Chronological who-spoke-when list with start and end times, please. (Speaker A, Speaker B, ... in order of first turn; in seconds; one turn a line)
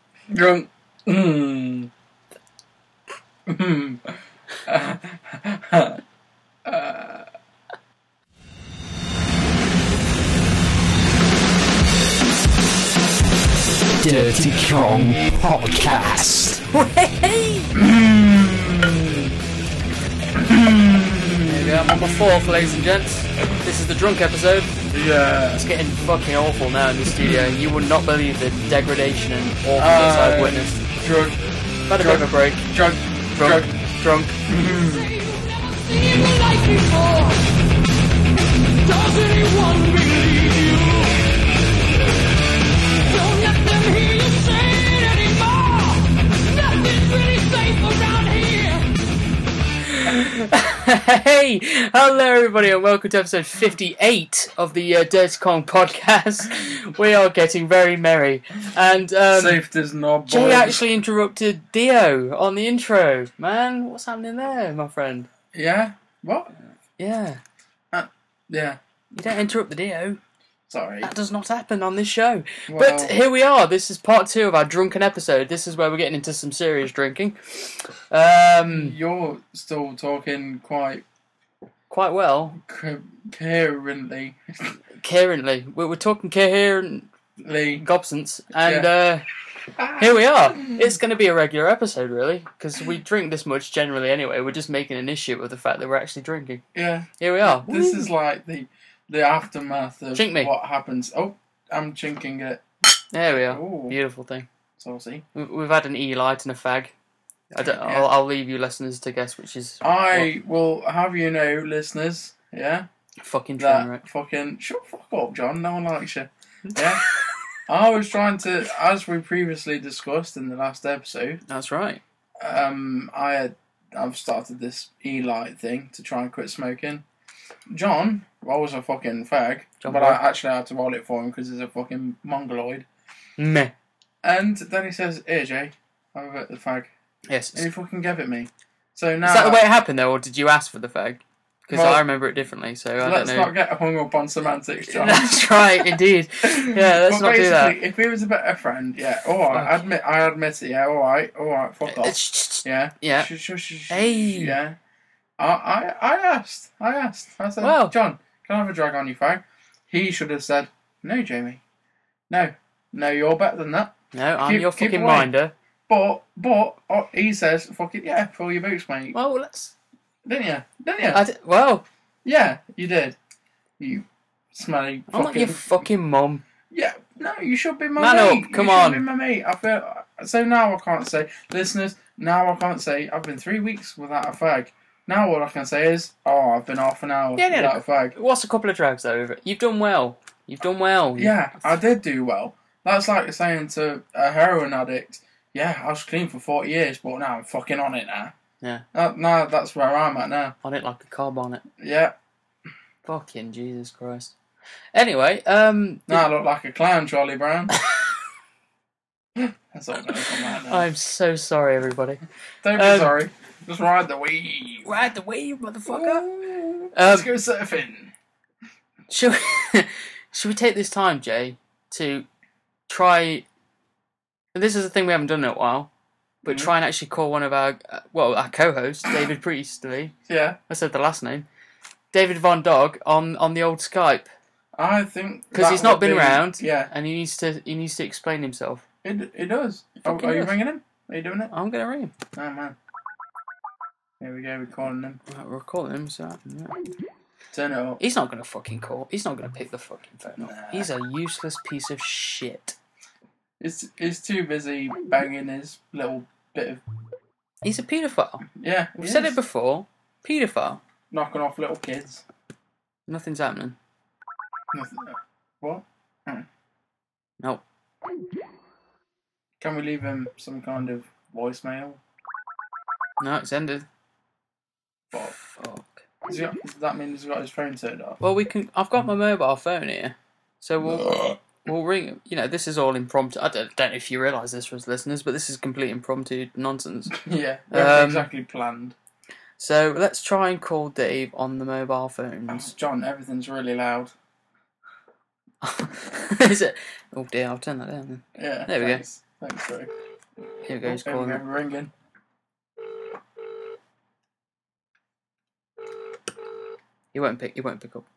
Speaker A: 0.3-1.9
Speaker A: 3.5-6.0
Speaker A: 6.7-7.3
Speaker B: 14.0-17.7
Speaker A: 17.7-19.3
Speaker A: 20.3-23.6
Speaker B: 21.5-24.7
Speaker A: 24.9-25.6
Speaker B: 25.5-30.8
Speaker A: 27.1-27.6
Speaker A: 29.8-31.4
Speaker B: 31.9-32.6
Speaker A: 31.9-33.8
Speaker B: 33.3-34.4
Speaker A: 34.5-35.1
Speaker C: 39.0-40.8
Speaker C: 47.4-48.7
Speaker B: 50.0-59.6
Speaker A: 59.3-60.8
Speaker B: 60.3-65.3
Speaker A: 65.5-66.5
Speaker B: 67.0-67.4
Speaker A: 67.9-68.8
Speaker B: 69.1-70.2
Speaker A: 70.7-71.1
Speaker B: 71.0-79.0
Speaker A: 72.7-73.2
Speaker A: 78.7-81.0
Speaker B: 81.9-82.6
Speaker A: 82.6-84.8
Speaker B: 85.0-87.1
Speaker A: 87.4-87.8
Speaker B: 87.8-89.2
Speaker A: 88.6-88.9
Speaker A: 89.8-91.0
Speaker B: 90.0-96.6
Speaker A: 96.8-102.6
Speaker B: 97.2-98.1
Speaker B: 100.2-100.5
Speaker B: 103.1-104.5
Speaker A: 103.4-104.0
Speaker A: 104.8-105.2
Speaker B: 105.3-106.9
Speaker B: 107.5-110.3
Speaker A: 107.6-108.1
Speaker A: 109.8-112.9
Speaker B: 113.2-114.0
Speaker A: 113.6-117.0
Speaker A: 117.7-121.4
Speaker B: 121.5-122.0
Speaker A: 122.4-127.0
Speaker A: 127.7-132.9
Speaker B: 129.8-130.2
Speaker B: 133.4-133.7
Speaker A: 134.2-136.9
Speaker B: 137.3-137.7
Speaker A: 137.5-139.6
Speaker B: 139.2-143.5
Speaker A: 141.7-142.1
Speaker A: 143.0-154.8
Speaker B: 144.8-147.8
Speaker B: 149.5-149.9
Speaker B: 151.9-153.3
Speaker B: 153.9-154.6
Speaker A: 155.4-161.6
Speaker B: 157.6-157.9
Speaker A: 162.3-165.3
Speaker B: 164.1-165.5
Speaker A: 165.9-169.2
Speaker B: 169.1-169.7
Speaker A: 170.2-171.2
Speaker B: 171.1-171.8
Speaker A: 172.2-173.2
Speaker A: 173.8-175.6
Speaker B: 175.1-176.4
Speaker A: 176.7-188.2
Speaker B: 178.0-179.0
Speaker B: 187.4-191.4
Speaker A: 191.2-198.3
Speaker A: 198.9-200.6
Speaker B: 200.6-201.6
Speaker A: 201.8-202.1
Speaker B: 203.1-204.3
Speaker B: 204.9-206.3
Speaker A: 206.1-207.8
Speaker A: 209.4-210.9
Speaker B: 210.7-212.2
Speaker A: 212.6-215.0
Speaker B: 212.7-213.1
Speaker B: 214.9-216.2
Speaker A: 215.9-218.1
Speaker B: 216.9-217.3
Speaker B: 219.1-222.3
Speaker B: 222.9-223.4
Speaker B: 224.5-225.9
Speaker B: 226.4-230.1
Speaker A: 226.4-226.7
Speaker A: 230.3-230.6
Speaker B: 230.7-231.5
Speaker B: 232.1-234.3
Speaker A: 234.8-236.9
Speaker B: 235.5-238.8
Speaker A: 239.0-241.5
Speaker B: 240.1-240.6
Speaker B: 241.5-242.1
Speaker A: 242.3-242.8
Speaker A: 244.2-245.2
Speaker B: 245.3-246.8
Speaker A: 247.5-248.0
Speaker B: 248.0-252.8
Speaker A: 250.4-250.9
Speaker A: 253.6-256.8
Speaker B: 257.6-258.5
Speaker A: 258.6-259.4
Speaker B: 259.0-260.8
Speaker A: 261.1-262.2
Speaker B: 263.1-263.8
Speaker A: 264.7-266.5
Speaker A: 269.6-272.0
Speaker B: 273.2-273.9
Speaker B: 275.1-276.0
Speaker A: 276.3-278.2
Speaker B: 278.2-287.2
Speaker A: 280.8-281.4
Speaker A: 287.1-289.0
Speaker B: 287.7-288.3
Speaker B: 289.6-292.7
Speaker A: 292.5-294.1
Speaker B: 295.6-299.0
Speaker A: 298.4-299.9
Speaker B: 300.6-301.4
Speaker A: 300.8-301.9
Speaker B: 307.1-308.1